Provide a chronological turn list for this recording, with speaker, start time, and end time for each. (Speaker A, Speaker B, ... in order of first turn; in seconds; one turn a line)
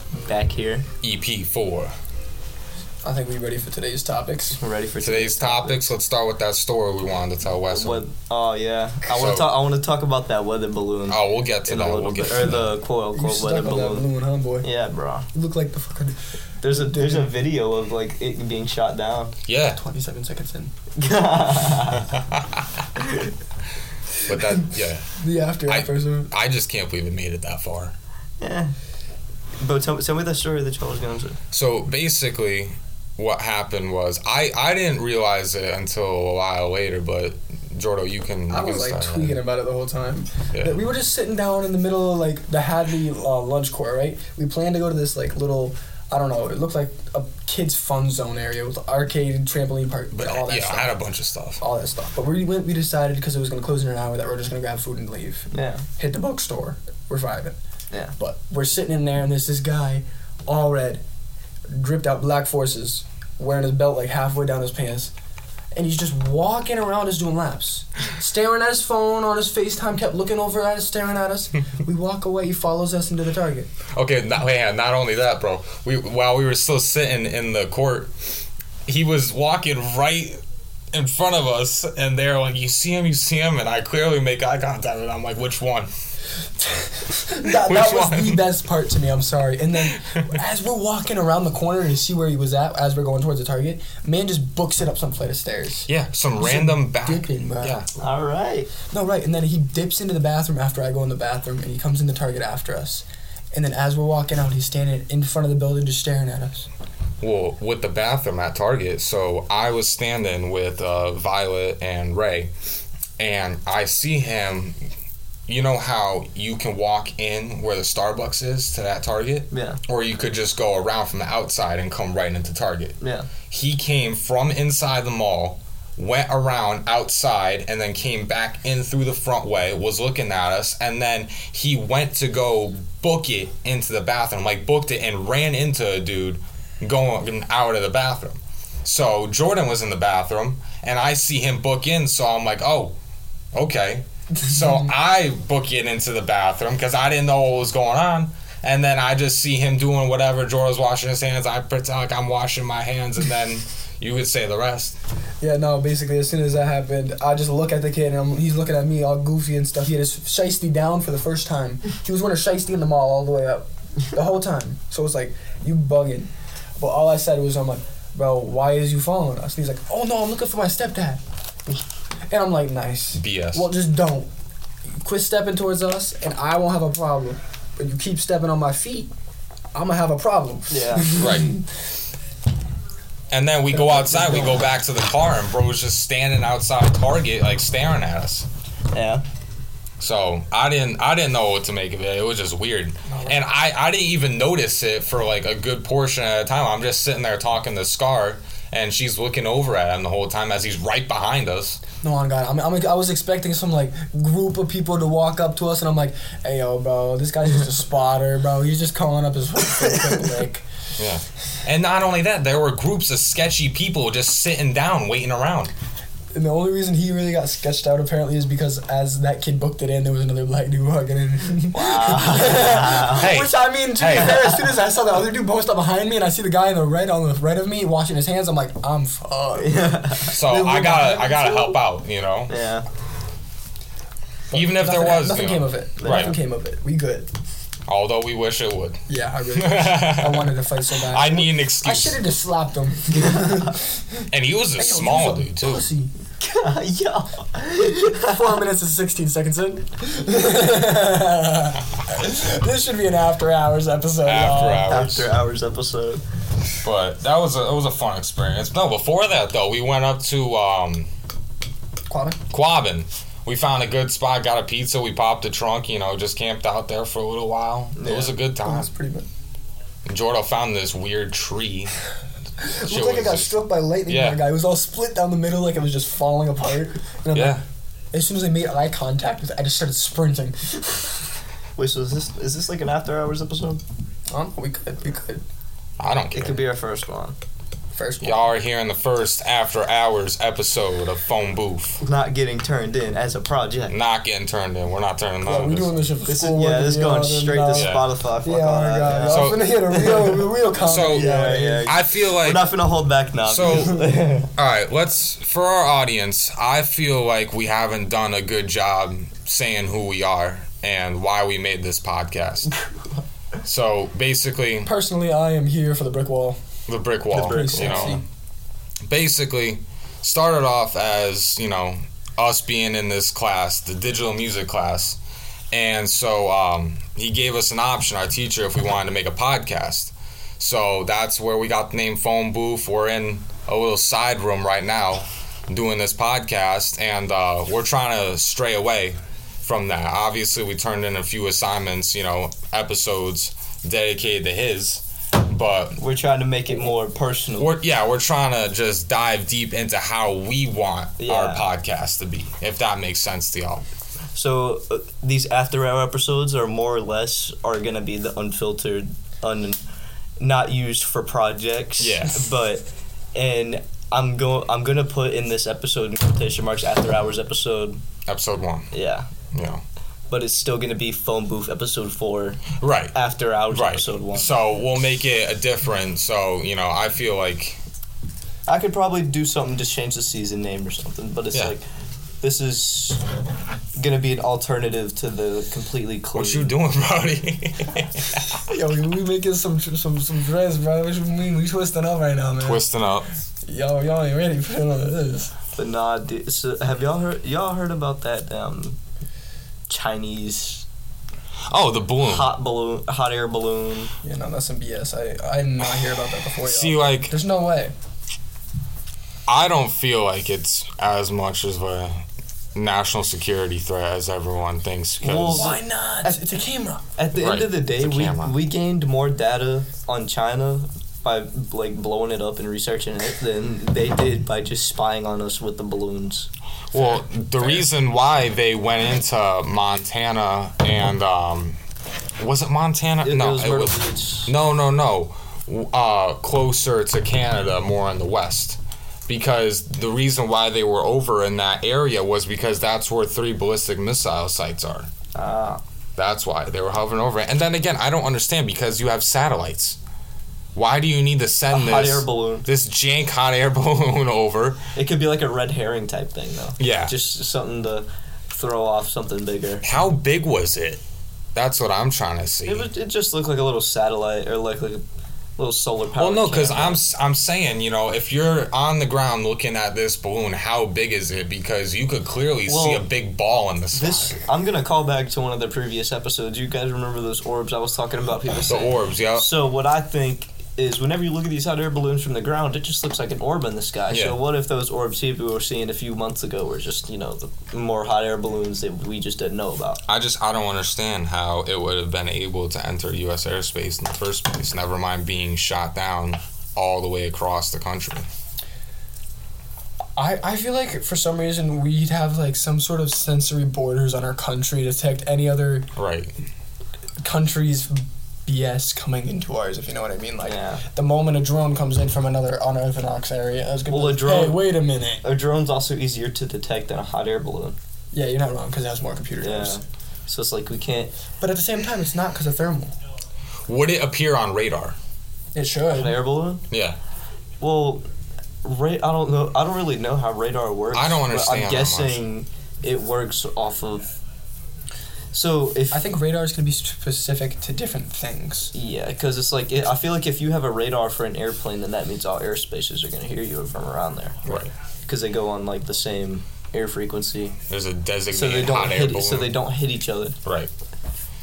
Speaker A: 0.2-0.9
Speaker B: 1.0-1.9
Speaker C: 3.0-4.6
Speaker A: 4.6-5.9
Speaker B: 5.0-8.1
Speaker A: 7.7-14.1
Speaker B: 9.1-9.5
Speaker B: 11.1-12.7
Speaker C: 13.2-14.7
Speaker A: 14.6-15.3
Speaker C: 15.3-17.3
Speaker A: 16.6-19.4
Speaker B: 19.5-19.8
Speaker C: 19.8-20.7
Speaker A: 21.0-22.1
Speaker B: 21.9-22.8
Speaker A: 23.0-23.3
Speaker B: 24.3-25.1
Speaker C: 24.3-26.3
Speaker B: 25.7-27.9
Speaker A: 28.4-28.7
Speaker A: 29.6-31.4
Speaker B: 31.5-39.4
Speaker C: 38.5-50.9
Speaker B: 50.1-51.6
Speaker C: 51.6-57.6
Speaker A: 55.5-55.8
Speaker C: 58.2-61.0
Speaker C: 61.7-65.1
Speaker C: 65.7-73.7
Speaker B: 73.9-80.4
Speaker B: 80.9-85.9
Speaker C: 86.6-97.8
Speaker B: 87.4-88.4
Speaker B: 89.8-90.2
Speaker B: 95.9-97.9
Speaker A: 98.0-98.7
Speaker C: 98.9-106.7
Speaker B: 107.2-112.5
Speaker B: 113.2-114.8
Speaker B: 115.5-123.0
Speaker A: 119.5-119.8
Speaker A: 123.0-123.3
Speaker B: 123.5-143.0
Speaker B: 143.5-155.0
Speaker C: 144.4-144.8
Speaker C: 155.4-171.2
Speaker C: 172.3-174.3
Speaker B: 173.2-173.7
Speaker C: 175.0-179.1
Speaker C: 179.7-181.7
Speaker A: 180.7-181.1
Speaker B: 181.2-181.5
Speaker B: 183.3-188.5
Speaker C: 183.7-184.7
Speaker A: 188.9-189.2
Speaker B: 190.0-201.8
Speaker C: 193.1-193.4
Speaker C: 202.0-210.7
Speaker B: 211.0-215.7
Speaker C: 216.3-231.8
Speaker A: 221.7-223.4
Speaker B: 223.1-224.5
Speaker A: 224.2-224.6
Speaker A: 229.6-230.3
Speaker B: 230.3-232.6
Speaker A: 232.5-232.9
Speaker C: 234.5-237.3
Speaker B: 234.5-236.4
Speaker A: 236.0-236.4
Speaker B: 237.9-239.0
Speaker C: 239.1-246.1
Speaker B: 239.6-242.2
Speaker B: 244.3-245.8
Speaker A: 246.4-248.4
Speaker C: 248.0-254.9
Speaker B: 254.2-255.3
Speaker A: 254.5-256.2
Speaker B: 256.8-261.1
Speaker C: 262.1-262.4
Speaker B: 262.5-268.9
Speaker A: 268.0-268.4
Speaker C: 268.6-269.3
Speaker B: 270.1-271.9
Speaker C: 272.6-277.6
Speaker B: 272.8-274.4
Speaker B: 277.3-277.6
Speaker C: 278.1-281.2
Speaker A: 281.8-283.8
Speaker C: 284.3-285.4
Speaker B: 286.0-286.6
Speaker A: 286.3-287.4
Speaker C: 287.9-288.5
Speaker B: 288.2-292.0
Speaker A: 292.0-294.0
Speaker B: 293.9-295.9
Speaker C: 295.4-301.9
Speaker A: 296.3-304.5
Speaker B: 297.7-298.1
Speaker B: 299.3-299.6
Speaker B: 300.8-302.6
Speaker B: 303.5-312.7
Speaker B: 313.6-314.9
Speaker C: 314.9-316.6
Speaker B: 316.9-318.2
Speaker A: 317.3-318.2
Speaker C: 317.3-318.2
Speaker B: 319.1-325.2
Speaker B: 325.7-346.0
Speaker A: 346.0-347.7
Speaker B: 347.6-353.8
Speaker A: 351.2-351.7
Speaker A: 354.4-359.8
Speaker A: 360.4-368.0
Speaker B: 362.0-362.6
Speaker B: 368.3-368.9
Speaker A: 368.9-369.3
Speaker B: 369.5-369.8
Speaker A: 370.3-374.5
Speaker B: 372.8-373.1
Speaker B: 373.7-377.8
Speaker A: 378.7-381.9
Speaker A: 382.4-383.2
Speaker A: 384.0-386.7
Speaker B: 386.4-388.6
Speaker C: 388.6-392.9
Speaker B: 392.6-393.3
Speaker C: 393.7-395.6
Speaker A: 395.8-399.0
Speaker A: 399.9-400.9
Speaker B: 401.7-402.5
Speaker A: 402.2-404.1
Speaker C: 404.2-407.9
Speaker B: 406.6-407.4
Speaker B: 409.5-412.2
Speaker B: 412.8-415.8
Speaker A: 415.2-415.8
Speaker C: 415.5-417.1
Speaker A: 417.2-426.5
Speaker B: 417.3-418.6
Speaker B: 426.9-431.8
Speaker B: 432.4-445.1
Speaker A: 433.2-434.5
Speaker A: 445.4-445.8
Speaker B: 446.2-450.0
Speaker B: 450.8-454.9
Speaker A: 451.7-452.7
Speaker A: 454.9-459.9
Speaker B: 456.8-457.2
Speaker B: 459.8-461.0
Speaker B: 461.6-462.9
Speaker A: 462.7-465.0
Speaker A: 465.6-467.0
Speaker B: 466.2-474.4
Speaker A: 472.7-473.1
Speaker A: 473.9-490.0
Speaker B: 478.7-479.5
Speaker B: 484.1-484.4
Speaker B: 490.1-498.3
Speaker C: 500.2-505.9
Speaker B: 506.0-506.4
Speaker C: 507.2-515.2
Speaker A: 510.4-510.8
Speaker A: 513.9-514.7
Speaker A: 515.2-517.8
Speaker C: 518.1-519.8
Speaker A: 519.4-521.1
Speaker C: 521.4-522.9
Speaker B: 523.7-525.0
Speaker C: 525.5-526.2
Speaker A: 525.9-526.6
Speaker B: 526.7-527.0
Speaker A: 527.6-528.0
Speaker A: 528.6-534.0
Speaker B: 530.9-532.2
Speaker A: 535.3-536.0
Speaker C: 535.9-538.7
Speaker A: 538.7-547.6
Speaker B: 544.5-544.7
Speaker B: 547.7-549.5
Speaker A: 548.3-550.4
Speaker B: 550.5-550.7